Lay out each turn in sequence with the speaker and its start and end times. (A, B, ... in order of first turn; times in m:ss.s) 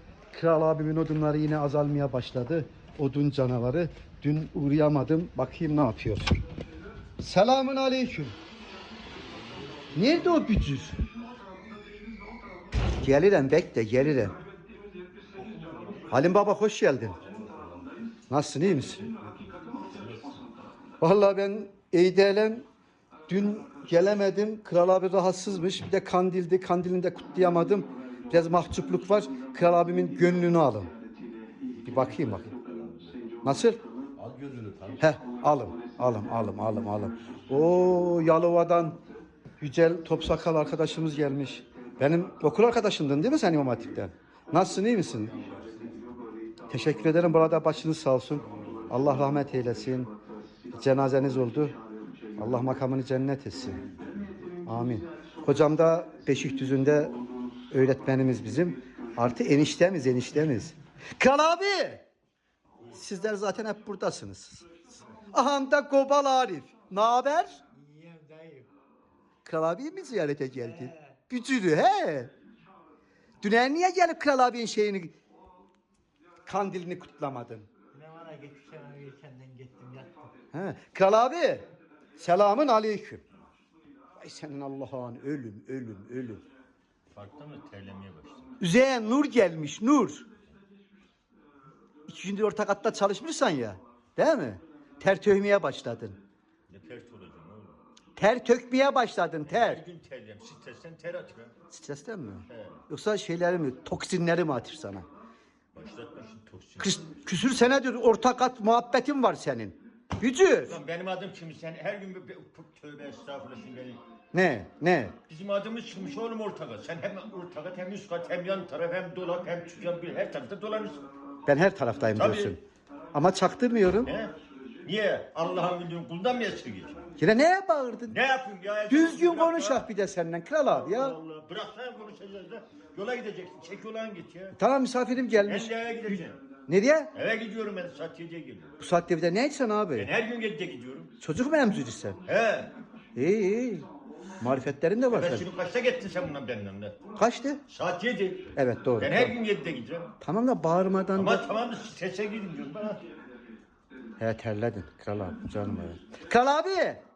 0:00.3-0:06.4 A
0:07.2-0:08.4 A
0:09.9-0:11.0 A
0:13.0-0:14.3 A
0:16.1-0:17.2 A
0:18.3-0:19.1 A
0:21.0-0:22.7 A
0:23.3-0:30.9 A
0:31.8-0:32.5 A
0:33.4-0:33.8 A
0:34.2-0:35.0 B
0:35.0-0:39.0 A
0:39.6-0:45.4 A
0:46.7-0:50.1 A
0:50.7-0:51.8 A
0:52.4-0:53.8 A
0:54.7-0:57.1 A
0:57.7-1:02.0 A
1:02.9-1:04.6 A
1:05.3-1:07.6 A
1:07.7-1:08.7 C
1:09.4-1:12.3 A
1:10.6-1:11.2 C
1:13.4-1:15.1 A
1:16.4-1:17.7 A
1:17.9-1:20.3 C
1:20.5-1:23.2 A
1:24.2-1:26.4 A
1:27.1-1:28.5 B
1:28.6-1:30.2 A
1:32.1-1:36.2 A
1:36.7-1:37.8 B
1:38.2-1:39.8 A
1:39.4-1:41.5 B
1:41.7-1:45.1 A
1:42.5-1:42.8 B
1:45.7-1:47.0 B
1:46.8-1:50.8 A
1:50.6-1:54.0 B
1:54.3-1:55.2 A
1:55.3-2:01.0 B
2:01.5-2:02.6 A
2:02.2-2:02.6 B
2:03.1-2:04.1 A
2:04.0-2:07.0 B
2:07.2-2:08.2 A
2:08.1-2:09.9 B
2:08.9-2:11.2 A
2:10.6-2:14.6 B
2:14.6-2:15.7 A
2:15.3-2:16.4 B
2:16.7-2:17.1 A
2:17.1-2:18.7 B
2:18.8-2:20.1 A
2:20.0-2:21.1 B
2:21.2-2:22.2 A
2:22.3-2:22.7 B
2:23.2-2:23.9 A
2:24.4-2:25.5 A
2:25.1-2:27.0 B
2:27.2-2:27.6 A
2:27.7-2:30.1 B
2:28.6-2:29.4 A
2:30.2-2:31.4 A
2:31.1-2:33.0 B
2:34.2-2:37.0 A